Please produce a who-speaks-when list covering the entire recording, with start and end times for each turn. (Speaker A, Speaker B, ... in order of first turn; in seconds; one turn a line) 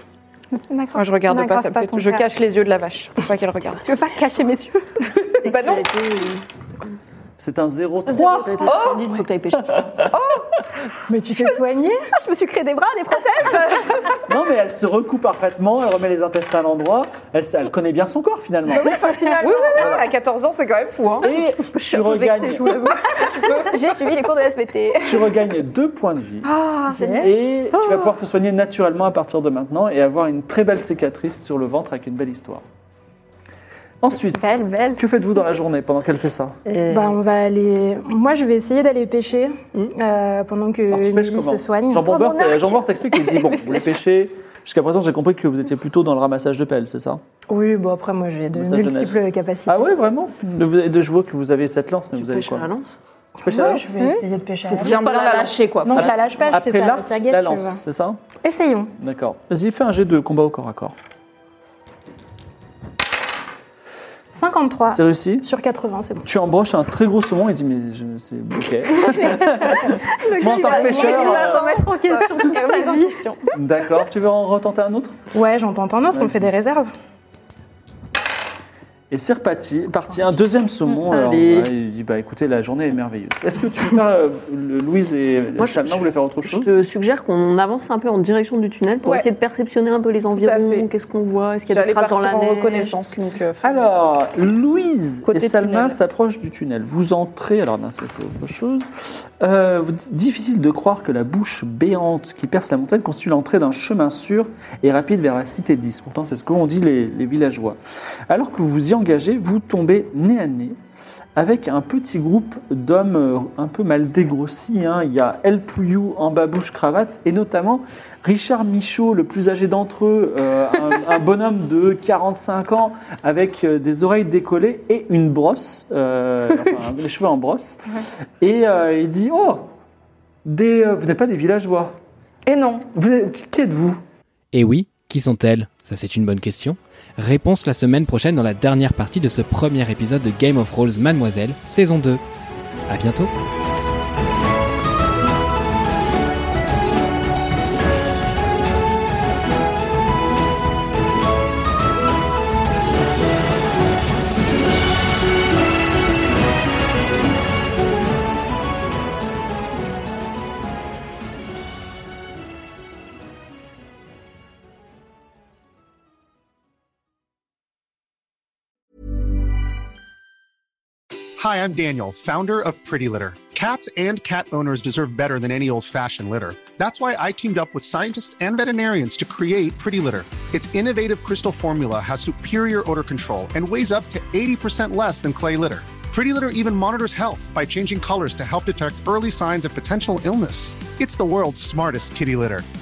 Speaker A: 0.5-2.2
Speaker B: 0.9-3.8
Speaker A: 3.8-5.3
Speaker B: 5.3-5.8
Speaker C: 5.4-6.4
Speaker D: 7.4-8.8
Speaker C: 8.1-10.1
Speaker B: 8.6-9.1
Speaker B: 10.1-10.6
Speaker E: 11.1-12.1
Speaker A: 12.1-13.8
Speaker C: 12.6-13.8
Speaker D: 14.2-19.0
Speaker A: 18.8-19.9
Speaker C: 18.8-19.4
Speaker B: 19.4-21.3
Speaker D: 19.7-20.1
Speaker D: 21.2-22.8
Speaker C: 21.6-23.6
Speaker B: 23.3-23.6
Speaker A: 23.3-25.3
Speaker D: 25.0-26.5
Speaker A: 26.4-28.1
Speaker E: 26.9-27.3
Speaker D: 27.2-32.6
Speaker D: 34.0-36.6
Speaker A: 34.4-35.0
Speaker C: 36.6-37.2
Speaker E: 36.9-42.1
Speaker D: 40.9-47.2
Speaker A: 42.1-43.5
Speaker E: 47.5-50.0
Speaker D: 48.5-52.7
Speaker C: 52.1-53.0
Speaker E: 53.4-55.0
Speaker D: 53.4-54.0
Speaker A: 54.0-54.2
Speaker C: 54.6-56.1
Speaker B: 54.8-56.0
Speaker E: 55.8-57.8
Speaker D: 56.0-58.2
Speaker E: 58.4-58.9
Speaker D: 59.0-61.0
Speaker E: 64.3-66.3
Speaker D: 64.9-65.5
Speaker D: 66.2-71.7
Speaker C: 70.2-73.2
Speaker A: 70.3-73.5
Speaker D: 73.5-75.2
Speaker E: 75.3-76.9
Speaker D: 76.1-76.6
Speaker D: 79.1-86.7
Speaker C: 81.0-81.7
Speaker C: 85.6-93.2
Speaker B: 90.4-90.9
Speaker B: 91.7-93.9
Speaker D: 93.6-98.9
Speaker B: 95.3-96.0
Speaker D: 99.4-107.8
Speaker D: 108.3-110.8
Speaker D: 111.3-127.8
Speaker D: 128.4-129.7
Speaker D: 130.4-132.0
Speaker B: 132.4-132.9
Speaker D: 132.9-134.0
Speaker F: 134.5-142.2
Speaker F: 142.9-143.3
Speaker G: 171.4-192.6